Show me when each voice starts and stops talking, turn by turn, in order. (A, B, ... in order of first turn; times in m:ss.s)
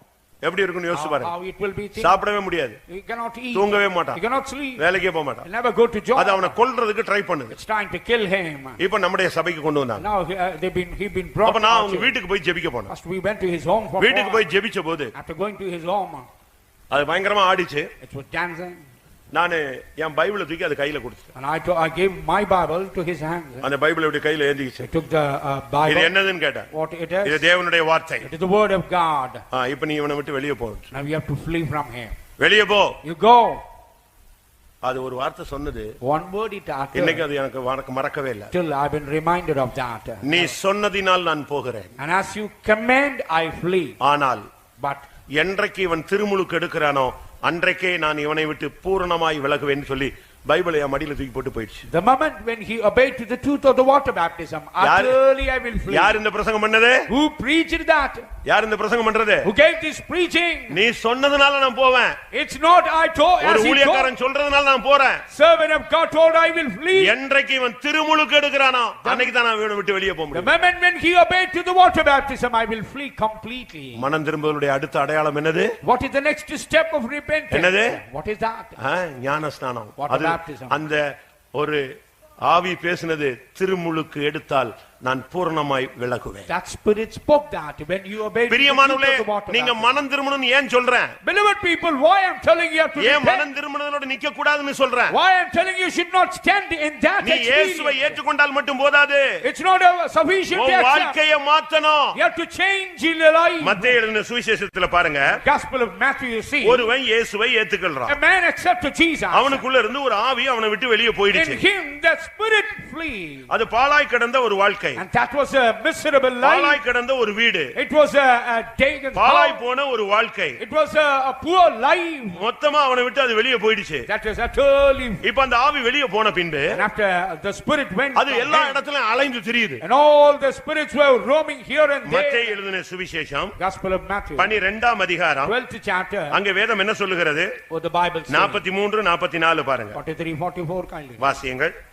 0:00.4-0:01.3 A
0:00.9-0:02.2 B
0:02.0-0:02.8 A
0:02.9-0:04.8 B
0:03.5-0:04.2 A
0:04.8-0:05.4 A
0:05.4-0:06.5 B
0:06.2-0:07.5 A
0:07.5-0:08.8 B
0:08.8-0:10.0 A
0:10.0-0:12.1 B
0:11.4-0:12.9 A
0:12.9-0:14.4 B
0:14.0-0:15.1 A
0:15.1-0:16.3 B
0:16.9-0:17.9 A
0:18.0-0:18.8 B
0:19.3-0:21.3 A
0:21.3-0:23.7 B
0:23.6-0:24.9 A
0:24.8-0:26.2 B
0:25.8-0:26.7 A
0:26.7-0:27.5 B
0:27.2-0:28.3 A
0:28.2-0:29.4 B
0:29.5-0:30.9 A
0:30.9-0:32.2 B
0:32.4-0:32.9 A
0:33.0-0:33.6 B
0:34.8-0:35.9 A
0:36.0-0:37.2 B
0:36.9-0:38.5 A
0:38.5-0:40.5 B
0:40.2-0:41.9 A
0:42.0-0:44.0 B
0:44.0-0:44.4 A
0:44.8-0:45.0 B
0:45.4-0:51.8 A
0:51.9-0:56.2 B
0:54.8-0:55.2 A
0:55.9-0:57.1 A
0:57.1-0:58.3 B
0:58.4-0:59.5 A
0:59.4-1:00.8 B
1:00.7-1:02.2 A
1:02.3-1:04.1 B
1:03.4-1:05.2 A
1:05.3-1:07.1 B
1:06.9-1:10.5 A
1:09.0-1:09.3 B
1:10.3-1:14.0 B
1:14.0-1:15.7 A
1:15.8-1:18.8 B
1:17.5-1:18.0 A
1:18.8-1:21.0 A
1:20.0-1:20.8 B
1:21.6-1:21.8 A
1:22.5-1:26.5 A
1:26.5-1:30.0 B
1:28.5-1:31.1 A
1:31.2-1:33.5 B
1:33.0-1:35.1 A
1:35.1-1:38.2 B
1:37.2-1:39.3 A
1:39.4-1:41.2 B
1:40.5-1:42.1 A
1:42.1-1:44.0 B
1:43.6-1:45.4 A
1:45.3-1:46.9 B
1:46.6-1:48.2 A
1:48.1-1:49.6 B
1:49.3-1:51.6 A
1:51.3-1:53.5 B
1:53.5-1:55.0 A
1:55.0-1:56.8 B
1:56.4-1:57.7 A
1:57.8-1:59.6 B
1:59.1-2:00.6 A
2:00.6-2:02.4 B
2:02.3-2:04.1 A
2:04.1-2:05.2 B
2:05.2-2:06.8 A
2:06.7-2:08.8 B
2:08.1-2:09.8 A
2:09.8-2:12.6 B
2:12.0-2:13.6 A
2:13.6-2:14.5 B
2:14.4-2:15.5 A
2:15.4-2:16.4 B
2:16.3-2:17.5 A
2:17.7-2:18.6 B
2:18.3-2:20.0 A
2:19.9-2:21.3 B
2:21.2-2:21.7 A